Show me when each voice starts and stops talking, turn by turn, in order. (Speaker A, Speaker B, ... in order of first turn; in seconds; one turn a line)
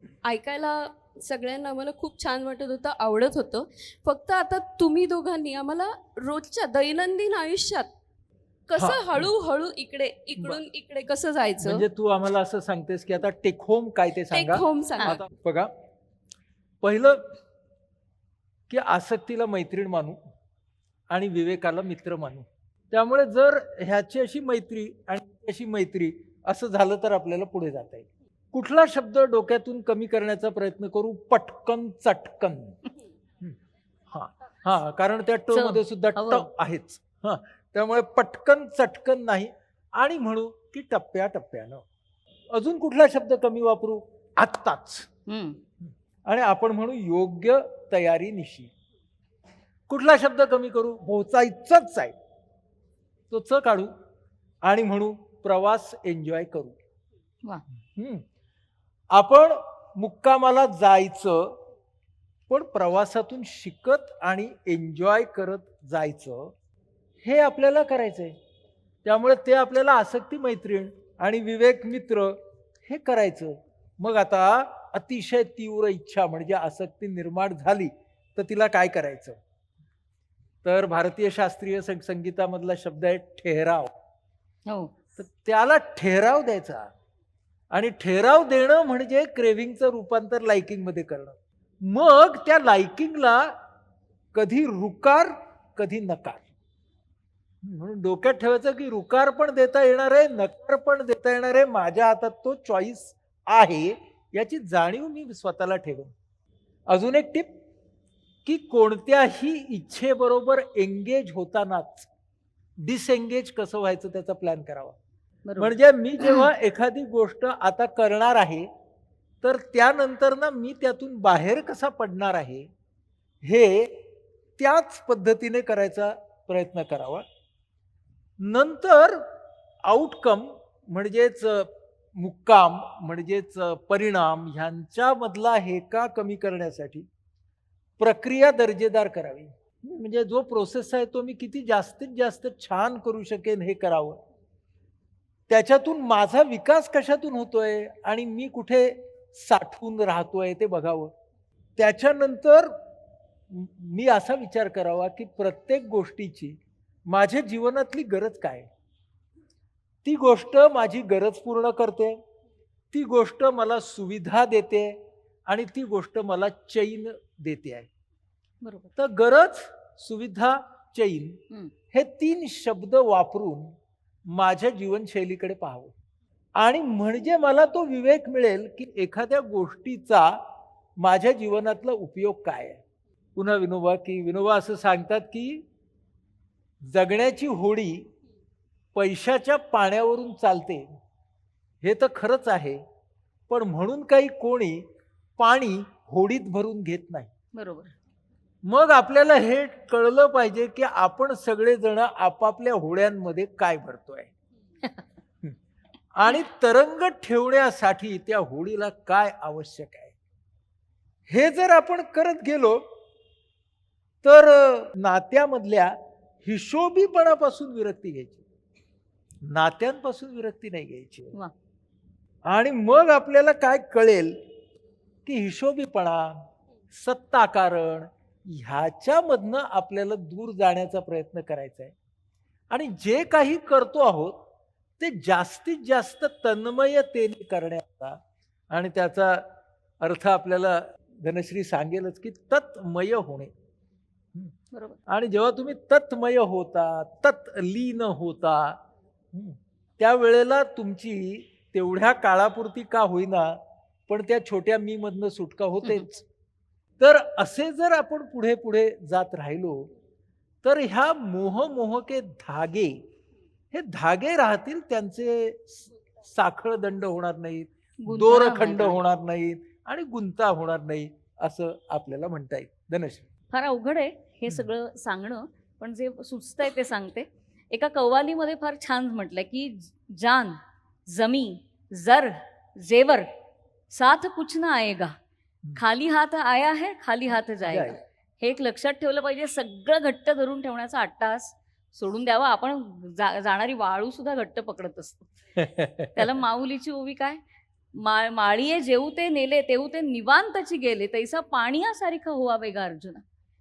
Speaker A: 0.2-7.9
Speaker A: 8.7-11.8
Speaker B: 8.8-9.3
Speaker B: 11.6-15.7
Speaker A: 14.3-15.2
Speaker B: 16.8-17.2
Speaker B: 18.7-20.2
Speaker B: 21.1-32.8
Speaker B: 34.1-41.8
Speaker C: 35.5-36.5
Speaker B: 42.5-45.1
Speaker C: 45.3-45.6
Speaker B: 46.2-48.7
Speaker B: 49.9-52.1
Speaker B: 53.3-53.9
Speaker B: 54.6-56.8
Speaker B: 58.0-58.2
Speaker B: 59.1-61.6
Speaker B: 62.5-66.5
Speaker B: 67.2-68.3
Speaker B: 69.0-79.4
Speaker B: 80.6-83.9
Speaker C: 84.7-84.9
Speaker B: 85.2-86.9
Speaker B: 87.7-93.5
Speaker B: 94.3-96.5
Speaker B: 97.6-106.1
Speaker B: 106.9-107.5
Speaker B: 108.4-112.1
Speaker B: 112.8-115.0
Speaker C: 115.5-116.5
Speaker B: 115.6-118.7
Speaker B: 119.4-122.7
Speaker B: 123.4-124.0
Speaker B: 124.6-127.2
Speaker B: 128.4-129.3
Speaker B: 129.8-137.1
Speaker B: 138.0-144.2
Speaker B: 145.5-151.1
Speaker B: 151.8-152.7
Speaker B: 153.5-158.7
Speaker B: 160.0-162.2
Speaker B: 162.9-167.9
Speaker C: 168.6-168.9
Speaker B: 169.0-171.4
Speaker B: 171.9-173.7
Speaker B: 174.3-175.9
Speaker B: 176.6-180.4
Speaker B: 181.0-182.8
Speaker B: 183.3-185.6
Speaker B: 186.8-188.1
Speaker B: 188.9-190.9
Speaker B: 191.8-192.8
Speaker B: 193.5-194.8
Speaker B: 195.4-197.3
Speaker C: 197.5-197.9
Speaker B: 198.6-204.3
Speaker B: 206.1-210.1
Speaker B: 211.3-212.8
Speaker B: 214.2-218.4
Speaker B: 219.5-221.3
Speaker B: 222.5-224.4
Speaker B: 225.2-226.4
Speaker B: 226.9-231.9
Speaker B: 232.7-234.4
Speaker B: 235.0-238.2
Speaker B: 238.7-239.5
Speaker B: 240.0-243.5
Speaker C: 244.7-245.0
Speaker B: 245.1-248.8
Speaker B: 249.3-256.2
Speaker C: 255.8-256.1
Speaker B: 257.0-259.9
Speaker B: 260.6-263.0
Speaker B: 263.7-273.3
Speaker C: 268.0-269.0
Speaker C: 273.5-283.3
Speaker C: 283.9-285.1
Speaker C: 285.7-295.3
Speaker B: 287.7-288.0
Speaker B: 295.6-296.2
Speaker C: 296.1-297.4
Speaker C: 297.9-303.2